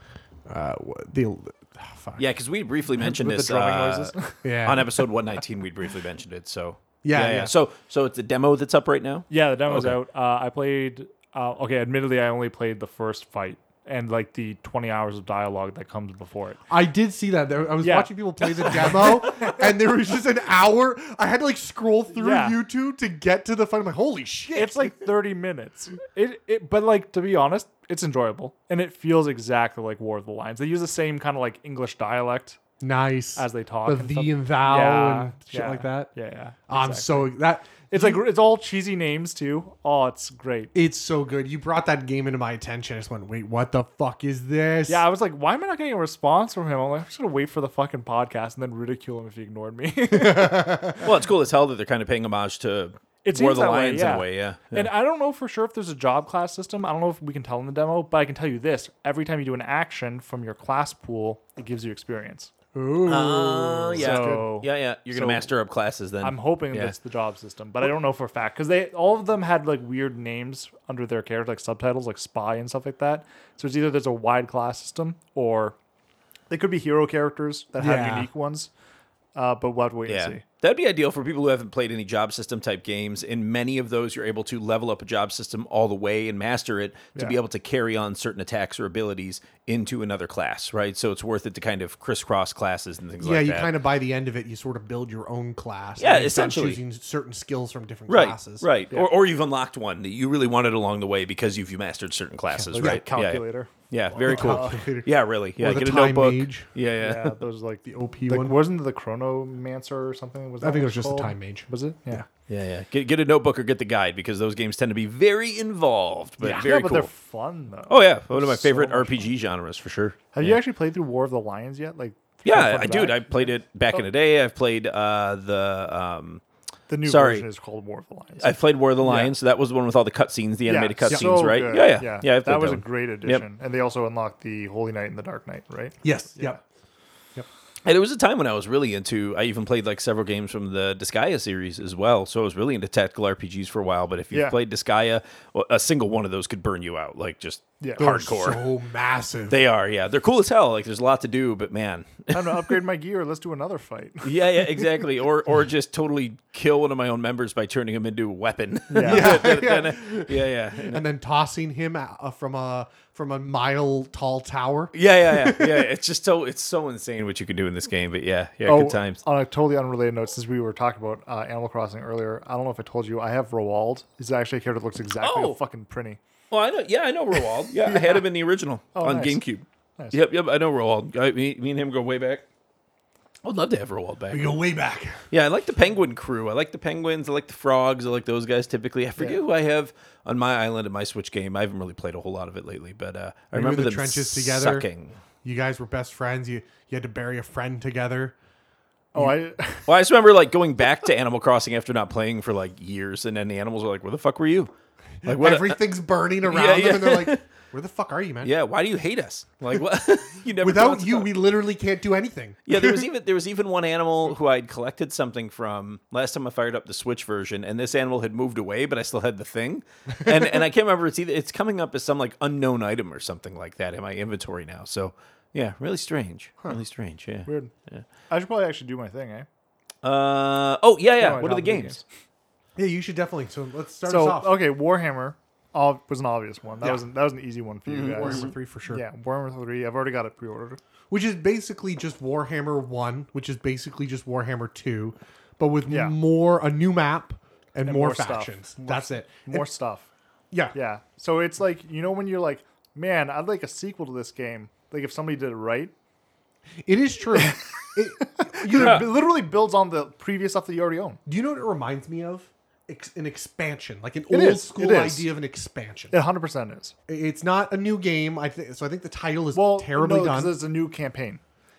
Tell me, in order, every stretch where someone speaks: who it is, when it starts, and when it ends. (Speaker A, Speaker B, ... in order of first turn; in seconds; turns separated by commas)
Speaker A: 0.5-2.2, Speaker B: 2.2-10.0, Speaker C: 3.0-4.4, Speaker A: 4.4-4.9, Speaker A: 7.0-7.5, Speaker C: 9.3-16.6, Speaker A: 16.7-24.9, Speaker C: 17.8-19.6, Speaker C: 22.1-22.6, Speaker C: 24.5-32.6, Speaker A: 32.8-36.1, Speaker C: 33.4-37.3, Speaker A: 36.7-38.2, Speaker C: 37.9-40.7, Speaker A: 40.7-45.0, Speaker C: 44.9-51.0, Speaker A: 50.1-51.0, Speaker B: 51.0-54.9, Speaker C: 53.2-62.5, Speaker A: 62.7-64.4, Speaker B: 63.0-66.9, Speaker C: 64.0-65.5, Speaker C: 66.2-75.8, Speaker C: 76.5-78.7, Speaker A: 77.8-78.3, Speaker C: 79.3-80.4, Speaker B: 80.1-93.7, Speaker A: 93.2-98.7, Speaker B: 96.0-96.8, Speaker B: 98.1-107.3, Speaker A: 102.5-103.0, Speaker C: 102.7-104.8, Speaker A: 104.1-106.7, Speaker C: 107.0-112.2, Speaker A: 107.8-108.6, Speaker A: 110.6-112.2, Speaker B: 112.5-117.1, Speaker C: 116.4-119.3, Speaker B: 117.9-120.6, Speaker C: 120.3-124.0, Speaker B: 122.4-126.4, Speaker C: 126.9-129.3, Speaker B: 127.0-127.5, Speaker B: 128.4-133.4, Speaker C: 130.7-136.6, Speaker A: 131.1-131.5, Speaker A: 136.0-136.6, Speaker B: 137.8-148.6, Speaker C: 144.3-144.6, Speaker C: 147.8-148.1, Speaker A: 148.0-149.6, Speaker B: 149.5-152.7, Speaker C: 152.3-154.6, Speaker B: 154.2-161.0, Speaker C: 158.9-159.5, Speaker A: 159.0-165.9, Speaker B: 164.9-169.2, Speaker C: 168.7-176.2, Speaker B: 175.2-175.6, Speaker B: 176.5-182.4, Speaker C: 178.9-179.4, Speaker B: 183.4-184.5, Speaker A: 184.3-185.3, Speaker B: 185.3-195.2, Speaker A: 193.5-194.9, Speaker A: 195.4-198.3, Speaker C: 199.1-199.9, Speaker B: 199.8-204.7, Speaker A: 205.2-208.5, Speaker B: 205.2-207.4, Speaker B: 208.4-211.3, Speaker A: 210.6-213.1, Speaker B: 212.7-228.0, Speaker A: 220.2-220.5, Speaker C: 227.4-227.7, Speaker C: 228.3-229.5, Speaker B: 230.0-232.0, Speaker C: 231.2-232.0, Speaker A: 232.8-234.6, Speaker C: 234.1-240.8, Speaker B: 237.9-238.5, Speaker A: 238.2-239.0, Speaker A: 241.1-249.7, Speaker C: 245.9-246.2, Speaker C: 247.8-250.1, Speaker C: 250.7-255.9, Speaker A: 256.8-259.1, Speaker C: 257.3-261.2, Speaker B: 258.8-259.0, Speaker A: 261.2-266.1, Speaker C: 264.3-265.3, Speaker C: 266.1-266.9, Speaker A: 267.1-270.6, Speaker C: 269.5-271.4